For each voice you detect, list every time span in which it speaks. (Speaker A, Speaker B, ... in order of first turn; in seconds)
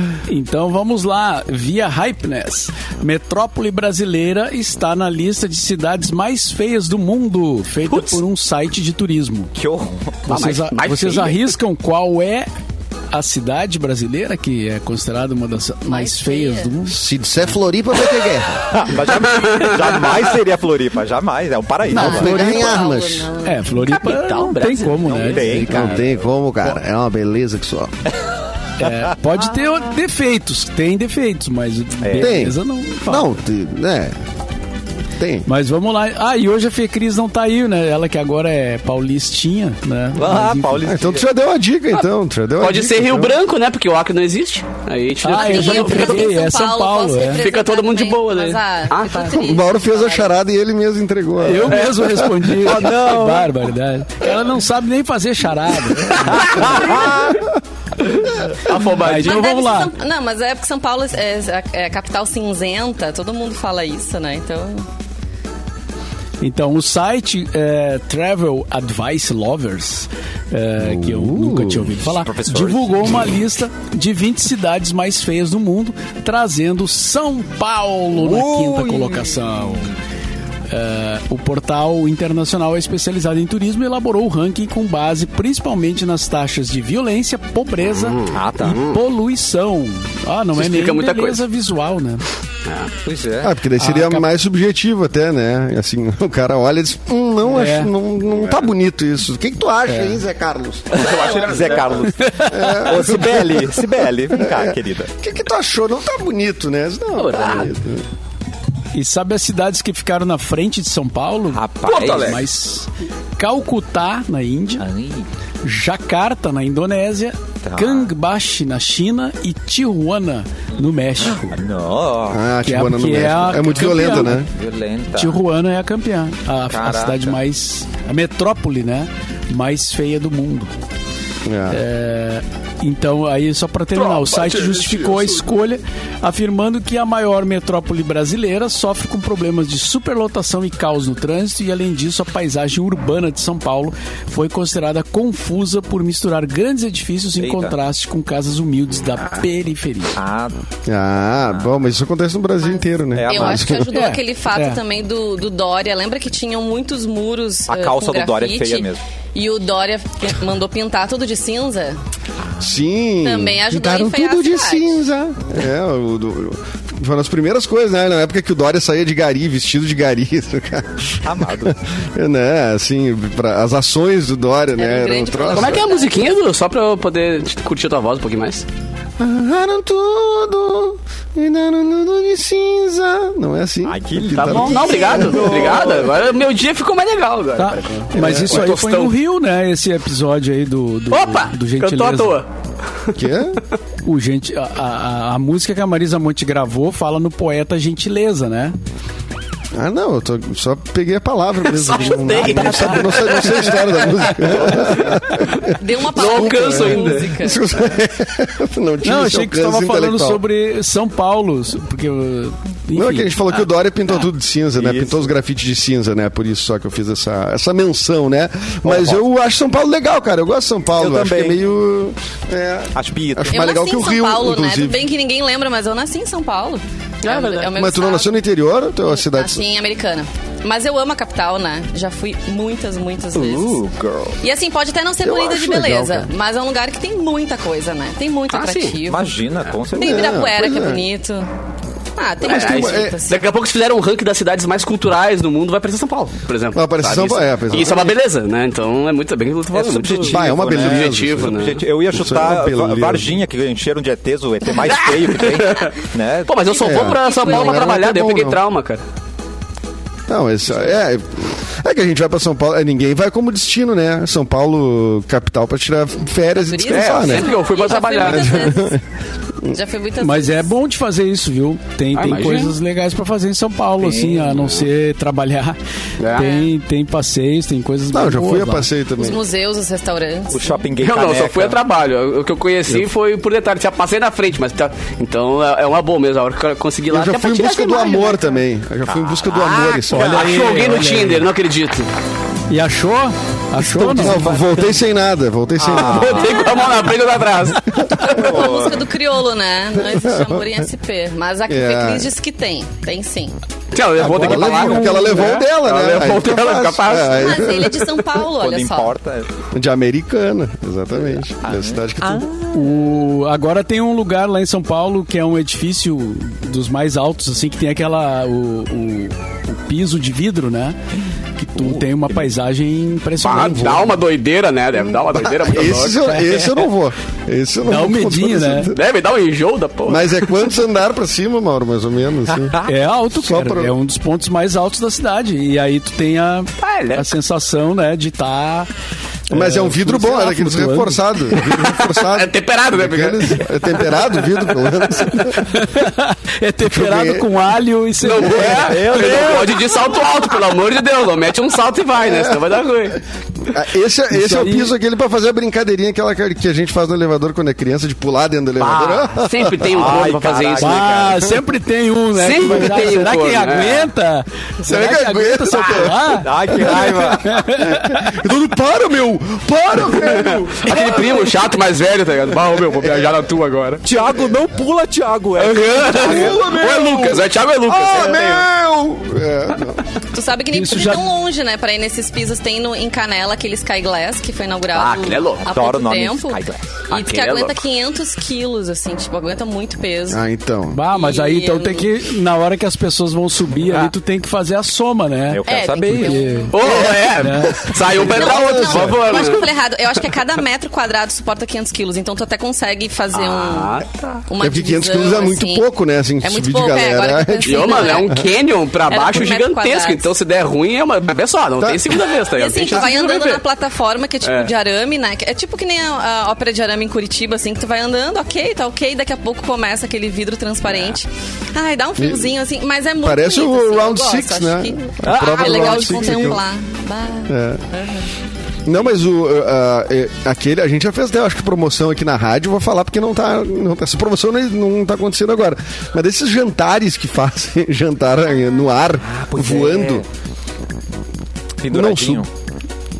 Speaker A: 0.3-9.5, 10.3-12.5, 13.1-17.0, 21.9-22.4, 23.4-26.1, 28.8-33.3, 35.5-40.9, 45.2-47.4, 51.4-57.0, 58.7-59.9, 66.4-79.9, 80.7-92.2, 93.8-94.2, 97.5-97.9, 99.9-100.2, 108.9-114.8, 115.6-121.6, 122.6-124.4, 125.2-130.7, 131.7-150.2, 153.9-154.8, 187.6-192.4, 194.0-198.7, 202.4-203.3, 209.0-213.6, 270.2-275.8, 276.3-278.9, 290.1-291.5, 292.7-294.5, 304.4-305.6, 312.7-321.0, 321.6-324.2, 326.2-326.8, 327.8-328.9, 332.8-338.9, 339.5-341.4, 345.5-349.3, 354.3-354.9, 360.8-368.3, 380.7-381.2, 390.9-396.8, 397.3-397.9
Speaker B: 7.9-8.2, 10.3-11.5, 19.2-20.2, 23.8-25.6, 42.6-46.3, 47.2-49.4, 58.6-59.5, 87.8-89.0, 90.5-91.4, 92.6-92.9, 100.9-102.1, 107.1-107.7, 111.8-112.4, 133.9-135.4, 175.5-178.7, 184.3-189.1, 191.1-192.5, 201.6-207.3, 227.2-227.7, 238.5-239.0, 242.4-251.8, 254.8-255.9, 256.5-259.0, 266.9-268.7, 272.1-272.7, 276.2-276.5, 281.0-288.5, 290.1-292.1, 295.9-297.9, 303.9-308.0, 323.4-326.2, 328.9-330.6, 336.8-337.3, 341.6-345.1, 348.2-353.2, 359.3-361.5, 362.4-364.1, 370.1-374.0, 375.6-378.7, 384.9-385.6, 387.1-387.8, 396.7-399.7, 403.3-404.4, 407.6-413.6, 414.4-414.7
Speaker C: 9.5-10.2, 18.7-22.7, 25.0-26.2, 32.0-32.4, 40.1-41.3, 52.6-53.6, 56.1-57.4, 72.0-73.3, 78.2-79.9, 88.3-88.8, 93.0-93.5, 101.0-105.1, 111.5-112.4, 114.8-115.2, 117.6-118.1, 121.2-122.4, 123.8-125.4, 126.7-127.4, 147.4-147.7, 150.2-150.5, 153.1-153.7, 157.7-159.0, 162.4-162.7, 171.2-171.8, 183.8-186.2, 214.8-215.3, 218.8-219.2, 221.0-221.6, 222.9-223.7, 233.3-234.4, 239.1-240.4, 249.7-256.6, 274.0-274.8, 280.5-281.8, 289.1-290.7, 294.1-294.8, 295.8-296.7, 298.2-299.1, 308.6-309.5, 311.6-312.8, 321.8-322.5, 332.6-332.9, 348.6-350.0, 358.9-359.2, 359.9-361.3, 366.4-367.6, 374.0-376.7, 385.6-387.0, 393.9-394.1, 395.5-396.4, 439.2-440.2, 441.8-442.5
Speaker D: 15.8-16.7, 21.9-23.6, 45.3-50.3, 59.1-64.8, 153.3-162.0, 163.2-165.0, 174.8-176.2, 184.6-185.6, 205.8-207.6, 223.5-228.4, 229.1-233.8, 234.4-239.3, 239.9-241.5, 242.2-243.4, 256.6-258.0, 266.6-269.0, 269.6-270.7, 276.4-276.7, 279.2-280.8, 296.5-297.0, 298.2-303.5, 307.3-309.1, 380.3-390.4, 391.1-392.1, 395.6-397.1, 398.1-405.8, 406.4-408.5, 409.1-410.3, 412.5-428.3
Speaker E: 16.9-18.8, 21.9-23.3, 25.7-27.9, 32.2-34.1, 35.2-35.5, 40.8-43.4, 49.3-52.4, 70.8-71.9, 93.4-101.3, 102.5-108.0, 122.3-124.5, 131.4-131.8, 150.9-153.9, 162.6-175.9, 179.2-185.5, 188.2-188.6, 193.1-193.6, 199.8-210.4, 212.9-225.0, 227.7-229.6, 235.2-236.3, 240.0-241.0, 242.4-243.2, 246.7-248.2, 250.2-253.3, 256.8-258.6, 260.3-267.6, 268.1-269.0, 278.1-279.4, 287.1-290.4, 294.0-296.8, 297.9-298.7, 300.0-300.8, 301.7-302.3, 304.1-308.0, 309.7-312.5, 325.2-329.0, 330.1-332.8, 333.3-333.9, 339.5-345.8, 346.9-347.5, 352.2-352.6, 353.7-360.1, 364.8-371.4, 376.1-380.0, 390.3-391.0, 396.8-399.4, 404.6-408.4, 411.8-412.2, 422.2-422.5, 423.2-426.6, 427.5-427.8, 428.9-440.2, 441.9-442.4